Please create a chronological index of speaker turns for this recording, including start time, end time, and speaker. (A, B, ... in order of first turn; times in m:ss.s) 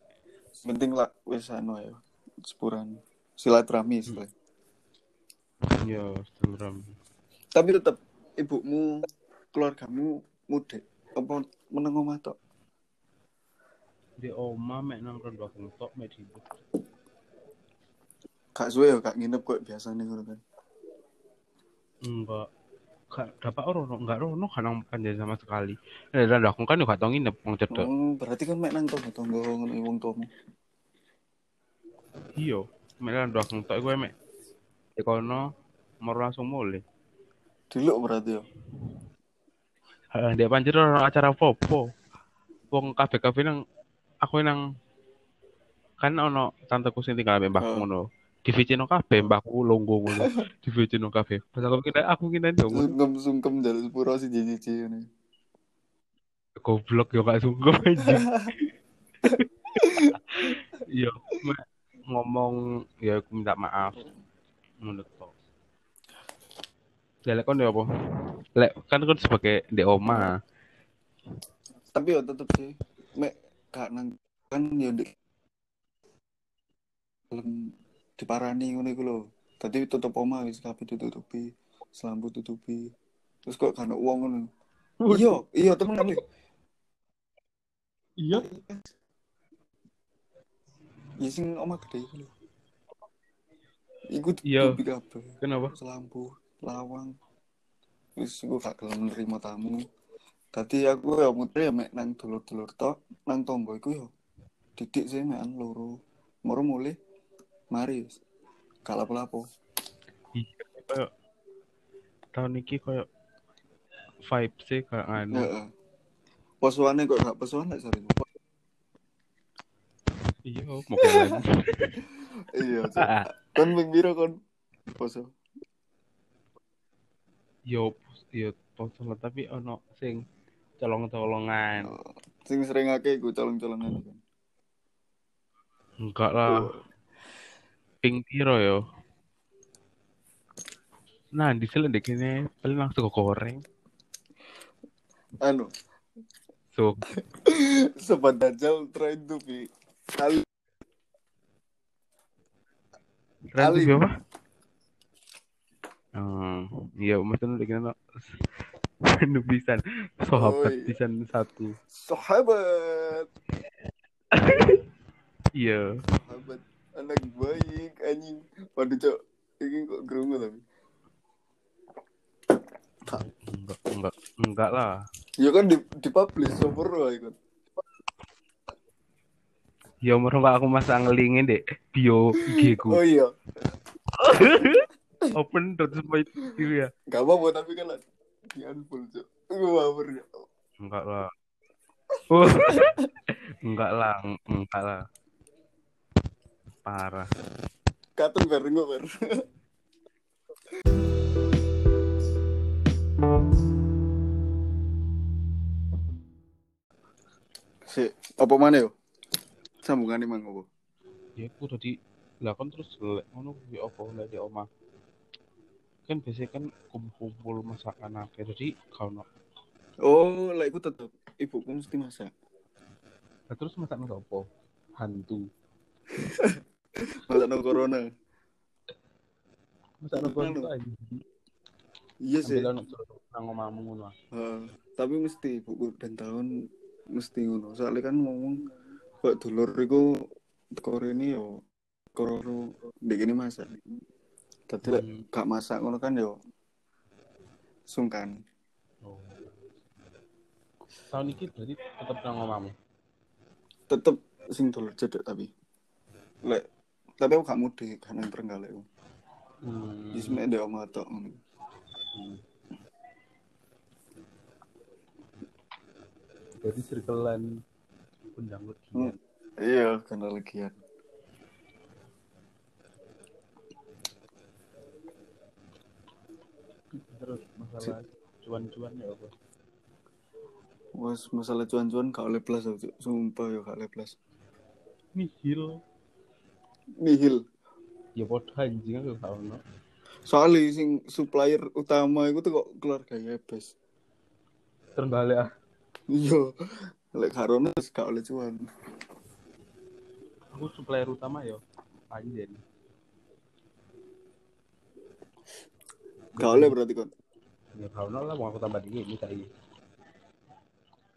0:00.6-0:04.3 A
0:05.8-0:06.9 B
0:07.5-0:09.0 A
0:09.5-0:12.4 A
0:14.2-0:16.4 B
0:18.6-0:20.4 A
0:22.0-0:22.5 B
0:23.1-0:27.9 B
0:27.7-0:30.3 A
0:32.4-0:34.1 B
0:35.0-0:35.5 B
0:36.0-0:36.8 B
0:37.7-0:38.4 A
0:40.1-0:41.8 B
0:42.7-0:43.6 B
0:44.2-0:44.6 B
0:46.0-0:52.9 B
0:47.6-0:47.9 A
0:52.7-0:55.0 A
0:56.6-0:58.7 B
0:58.0-0:58.5 A
0:59.4-1:04.1 B
0:59.8-1:00.1 A
1:04.8-1:05.3 B
1:07.3-1:07.8 B
1:08.6-1:10.4 B
1:10.1-1:10.3 A
1:11.9-1:15.1 A
1:17.3-1:22.9 A
1:23.4-1:24.5 A
1:25.0-1:25.4 B
1:25.1-1:26.2 A
1:28.2-1:28.4 B
1:28.3-1:28.9 A
1:31.2-1:32.3 A
1:34.1-1:37.1 A
1:34.4-1:34.8 B
1:35.4-1:35.7 B
1:38.2-1:39.8 A
1:40.5-1:44.1 A
1:44.8-1:47.0 A
1:47.7-1:48.2 A
1:48.8-1:49.4 A
1:50.3-1:51.1 B
1:52.3-1:53.0 B
1:54.2-1:55.5 B
1:55.3-1:55.7 A
1:56.6-1:58.2 A
2:00.4-2:02.0 B
2:01.0-2:01.4 A
2:02.4-2:04.4 A
2:02.6-2:03.3 B
2:05.0-2:05.3 A
2:07.7-2:10.2 B
2:10.8-2:11.9 B
2:11.8-2:14.2 A
2:16.0-2:16.7 B
2:16.5-2:16.8 A
2:18.0-2:18.8 B
2:21.4-2:23.6 B
2:25.4-2:25.7 A
2:26.7-2:27.0 B
2:27.3-2:29.6 A
2:30.2-2:30.4 A
2:33.5-2:34.1 B
2:33.6-2:34.0 A
2:36.2-2:38.4 B
2:39.1-2:41.8 B
2:40.3-2:40.9 A
2:42.0-2:43.3 A
2:44.3-2:44.8 B
2:45.6-2:45.9 B
2:46.1-2:50.6 A
2:53.0-2:55.0 B
2:55.4-2:57.4 A
3:00.0-3:03.0 B
3:02.5-3:03.3 A
3:04.2-3:06.9 B
3:07.1-3:08.0 A
3:08.6-3:10.4 A
3:10.8-3:11.3 B
3:12.3-3:13.0 B
3:13.6-3:15.0 B
3:16.8-3:17.3 B
3:18.2-3:19.4 A
3:27.9-3:28.9 A
3:29.8-3:30.7 A
3:31.4-3:34.7 B
3:36.1-3:39.2 B
3:40.0-3:42.3 A
3:43.5-3:44.4 B
3:45.0-3:45.4 B
3:46.1-3:46.6 A
3:47.1-3:48.0 A
3:50.0-3:51.2 B
3:50.1-3:50.7 A
3:52.2-3:52.7 A
3:52.4-3:54.1 B
3:54.3-3:56.5 A
3:57.1-3:58.6 A
3:59.2-4:00.1 A
4:00.8-4:01.6 A
4:02.2-4:03.7 A
4:04.7-4:06.4 A
4:04.8-4:05.2 B
4:07.9-4:08.4 A
4:09.0-4:09.5 B
4:11.1-4:12.7 B
4:13.9-4:15.5 A
4:17.2-4:18.8 A
4:19.6-4:20.4 B
4:20.1-4:21.4 A
4:22.1-4:22.4 B
4:26.6-4:27.5 B
4:28.4-4:29.2 B
4:29.0-4:30.7 A
4:37.1-4:39.3 B
4:41.0-4:44.2 A
4:45.2-4:45.8 B
4:47.0-4:47.4 A
4:48.2-4:49.6 B
4:50.3-4:53.7 A
4:55.0-4:55.5 B
4:56.1-4:56.5 A
4:57.1-4:58.6 A
5:00.5-5:01.6 B
5:02.1-5:02.6 B
5:06.4-5:06.7 B
5:06.4-5:07.1 A
5:07.8-5:09.5 B